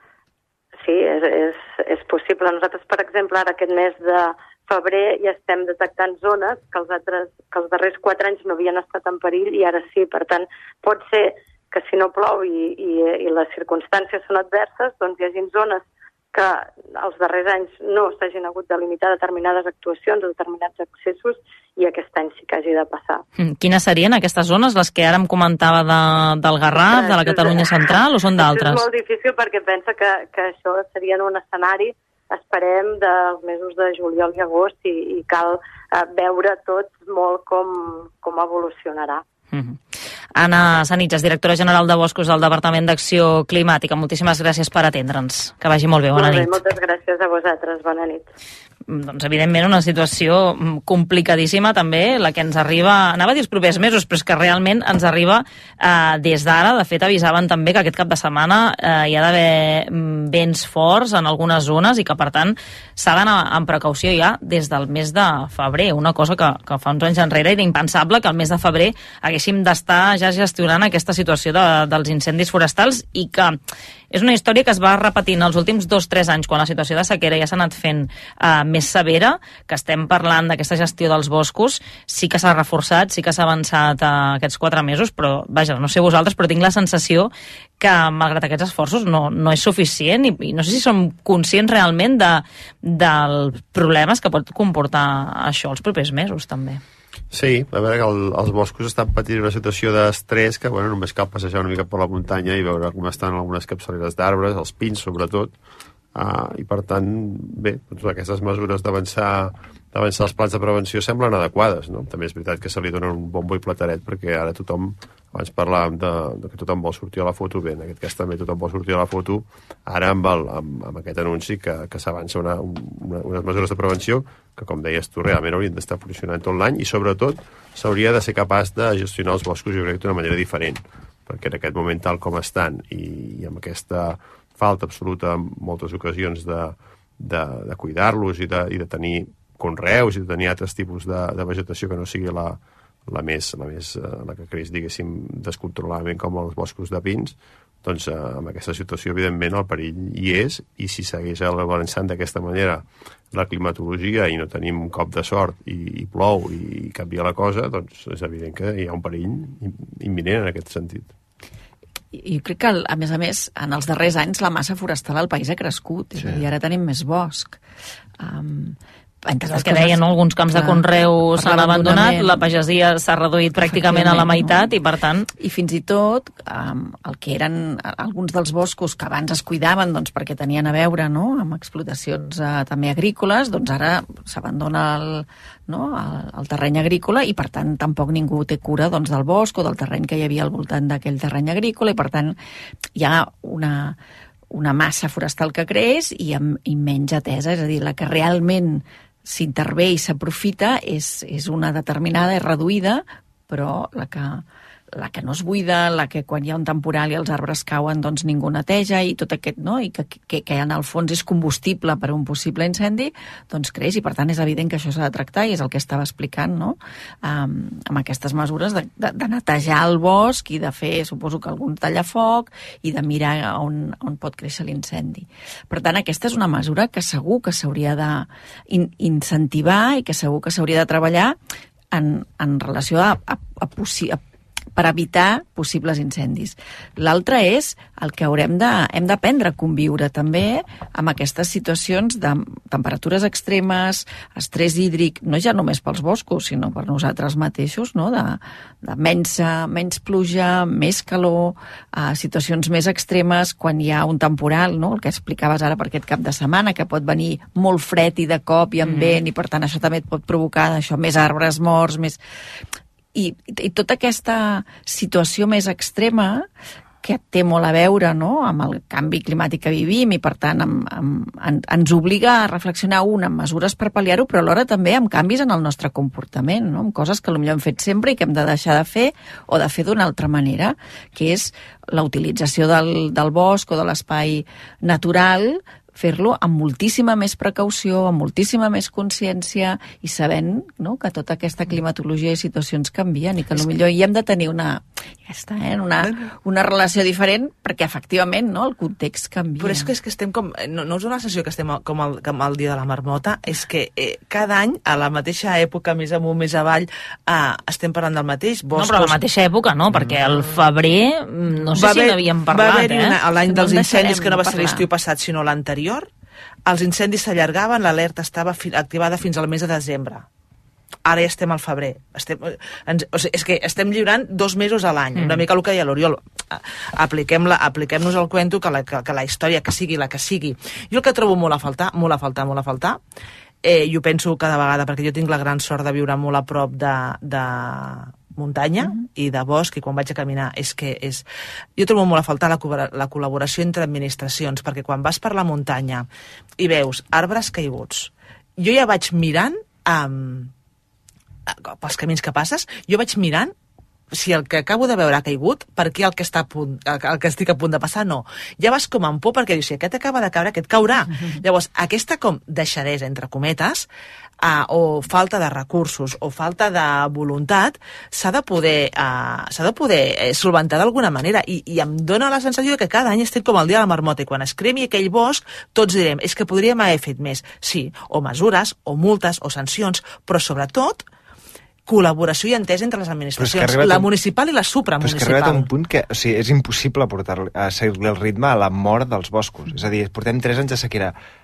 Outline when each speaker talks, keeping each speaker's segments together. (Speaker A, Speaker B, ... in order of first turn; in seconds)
Speaker A: 0.8-23.2, 26.9-39.2, 46.1-48.3
Speaker B: 23.4-28.9, 39.5-39.8, 40.4-46.6, 48.9-73.6, 74.1-96.8, 169.5-175.3, 308.8-313.2, 325.2-325.4
Speaker C: 97.3-105.5, 106.2-161.1
Speaker D: 162.1-167.6, 168.2-172.4, 173.7-174.7, 175.4-192.4, 193.0-194.0, 194.5-204.4, 204.9-231.4, 231.9-234.2, 234.8-262.2, 263.1-266.5, 267.0-299.9, 313.5-314.9
Speaker E: 299.6-309.2, 309.9-310.5, 311.8-316.1, 316.7-320.2, 321.1-333.0, 333.6-341.2, 341.8-346.1, 346.6-350.5, 351.5-353.5, 354.1-363.9, 364.4-381.1, 381.9-385.7
Speaker F: 383.4-384.1, 385.0-391.1